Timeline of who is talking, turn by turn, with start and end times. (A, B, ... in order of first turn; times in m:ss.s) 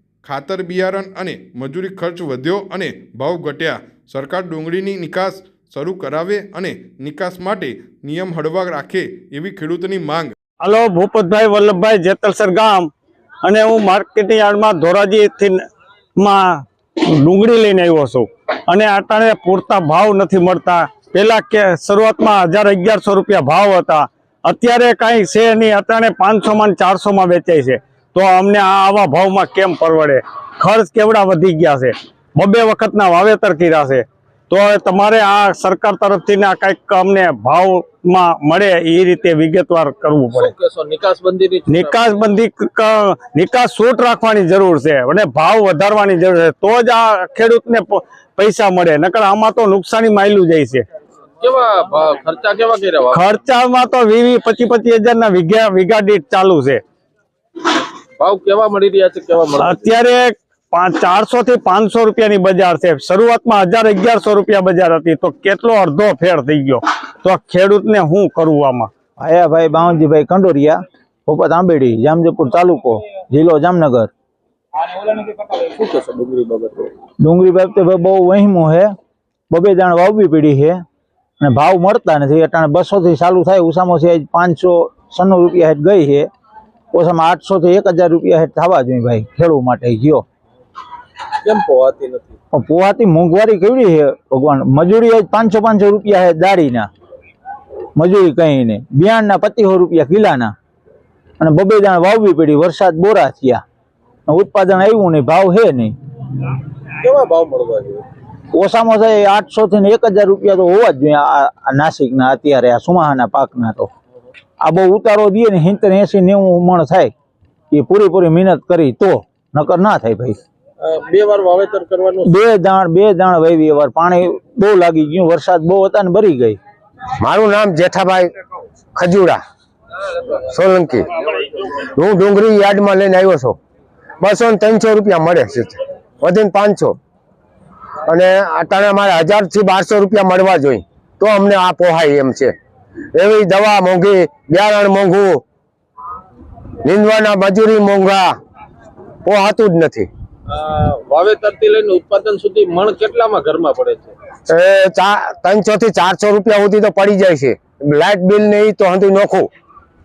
0:00.2-0:10.3 A
0:10.6-0:12.9 B
0:13.4-0:15.6 B
0:16.2-0:40.5 B
0:40.3-0:42.0 C
0:41.7-0:50.8 B
0:51.4-0:53.3 C
0:53.1-0:56.8 B
0:58.2-0:59.9 C
0:59.6-1:08.9 B
1:09.2-1:14.1 D
1:14.9-1:16.9 C
1:17.2-1:18.9 D
1:19.5-1:20.8 D
1:21.4-1:26.3 D
1:26.9-1:30.2 D
1:31.4-1:32.4 C
1:32.5-1:36.9 D
1:38.0-1:40.5 D
1:41.4-1:43.6 D
1:44.3-1:45.9 D
1:47.0-1:48.0 C
1:48.5-1:53.9 D
1:54.6-1:57.1 D
1:57.7-2:00.4 D
2:00.8-2:02.3 C
2:02.2-2:06.6 D
2:07.2-2:08.3 E
2:08.9-2:09.4 E
2:10.5-2:11.1 E
2:11.9-2:13.6 E
2:14.2-2:17.0 E
2:18.1-2:22.5 E
2:23.1-2:25.4 E
2:26.8-2:28.3 E
2:29.2-2:30.1 E
2:30.5-2:34.1 C
2:34.5-2:39.5 E